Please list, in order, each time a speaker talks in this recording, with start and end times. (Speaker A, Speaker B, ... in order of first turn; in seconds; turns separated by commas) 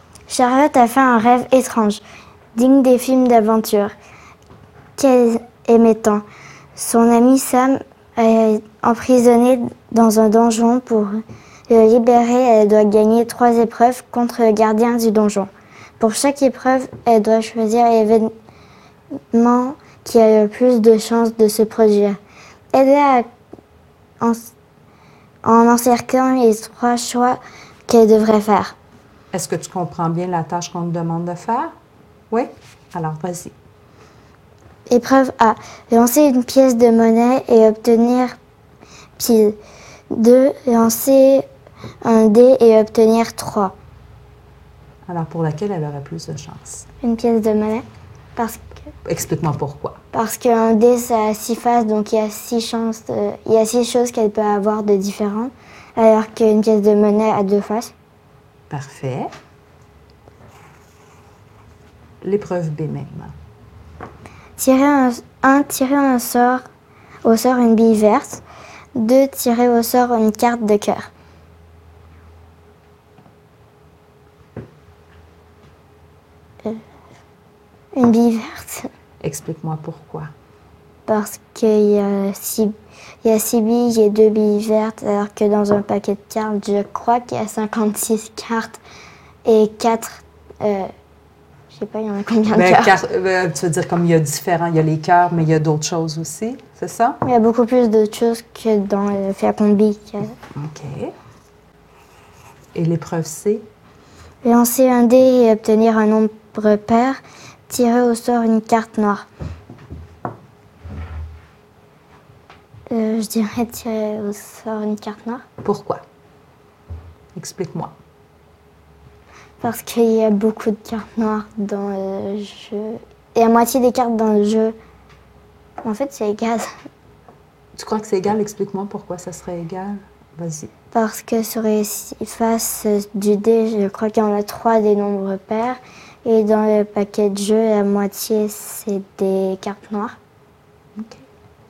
Speaker A: 0.3-2.0, Speaker A: 2.6-3.9, Speaker A: 5.0-6.2, Speaker A: 6.8-11.2, Speaker A: 11.7-18.3, Speaker A: 19.3-22.2, Speaker A: 22.7-23.3, Speaker A: 24.2-24.5, Speaker A: 25.4-28.8, Speaker B: 29.3-31.7, Speaker B: 32.3-33.5, Speaker A: 34.9-38.4, Speaker A: 39.2-39.6, Speaker A: 40.1-41.5, Speaker A: 42.0-43.7, Speaker B: 45.1-46.8, Speaker A: 47.0-47.9, Speaker A: 48.4-48.8, Speaker B: 49.1-50.0, Speaker A: 50.1-57.9, Speaker B: 58.7-59.3, Speaker B: 62.2-63.3, Speaker A: 64.6-66.6, Speaker A: 67.2-68.4, Speaker A: 69.0-71.1, Speaker A: 78.0-78.9, Speaker B: 79.2-80.3, Speaker A: 81.1-88.8, Speaker A: 89.5-90.9, Speaker A: 91.7-93.0, Speaker B: 92.5-97.2, Speaker A: 97.2-100.3, Speaker B: 100.5-101.1, Speaker B: 102.7-103.6, Speaker A: 104.4-107.2, Speaker A: 107.7-109.2, Speaker A: 112.9-115.4, Speaker B: 115.6-116.0, Speaker B: 117.4-117.9, Speaker A: 119.6-124.8, Speaker A: 125.8-126.7, Speaker B: 127.8-130.7, Speaker A: 130.9-140.2, Speaker B: 141.0-141.3